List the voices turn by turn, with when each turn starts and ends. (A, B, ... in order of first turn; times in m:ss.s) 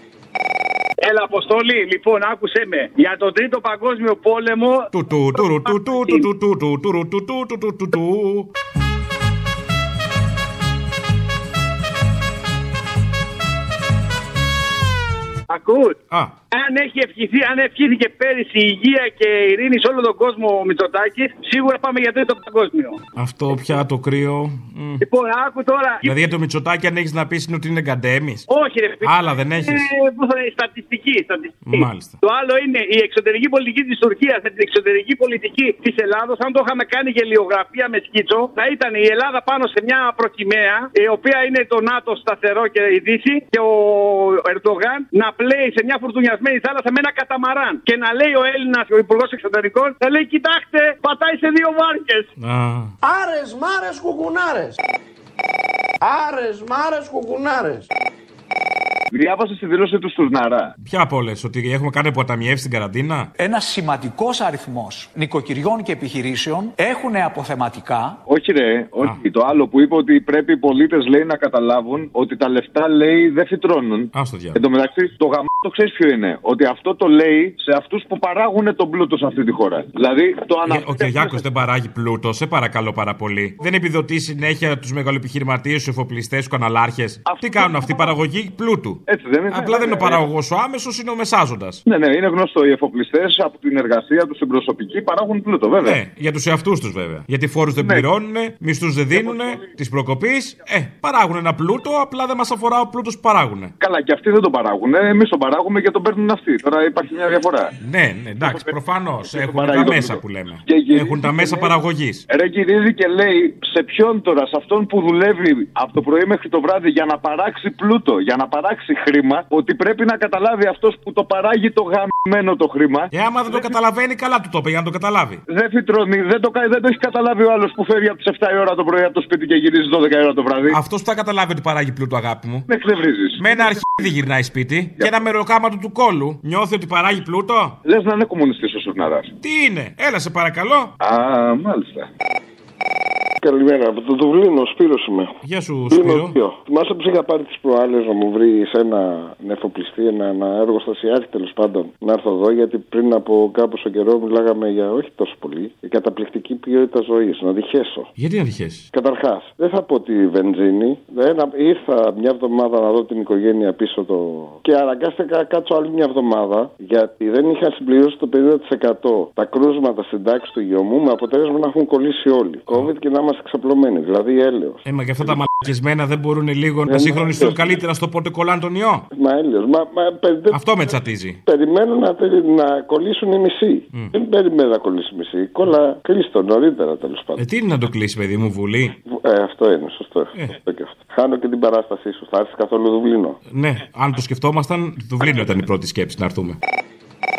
0:01.0-0:04.9 A
0:04.9-0:08.5 B
0:05.9-0:06.2 A
0:15.5-0:16.0 A
0:16.5-0:23.0 A
0:23.2-0:25.0 B
0:25.0-0:26.1 A
0:26.0-0:28.4 B
0:28.5-0:52.3 A
0:29.0-0:29.8 B
0:31.6-0:32.2 B
0:52.4-0:52.9 B
0:53.0-0:54.8 C
0:56.0-0:57.9 C
0:59.1-1:00.7 D
1:00.8-1:03.3 B
1:03.4-1:08.2 E
1:08.3-1:21.4 D
1:14.1-1:14.6 B
1:20.7-1:31.8 B
1:27.3-1:28.1 D
1:29.1-1:30.2 D
1:31.9-1:36.0 D
1:35.8-1:43.7 B
1:37.8-1:38.1 D
1:39.1-1:39.6 D
1:43.8-1:47.7 D
1:47.8-1:52.2 B
1:48.4-1:48.7 D
1:49.2-1:51.7 D
1:52.3-2:03.6 D
2:03.1-2:05.4 B
2:05.5-2:10.8 D
2:10.7-2:12.7 B
2:12.7-2:14.0 D
2:13.4-2:17.8 B
2:17.8-2:19.3 D
2:19.4-2:20.9 B
2:21.0-2:22.1 D
2:23.4-2:25.4 F
2:25.4-2:26.4 B
2:25.9-2:38.1 F
2:38.2-2:38.9 B
2:38.9-2:55.4 F
2:54.8-2:59.1 B
2:56.9-2:57.8 F
2:59.1-3:01.0 F
3:00.5-3:01.4 B
3:01.5-3:07.4 F
3:07.4-3:09.0 B
3:09.1-3:13.4 F
3:13.5-3:16.6 B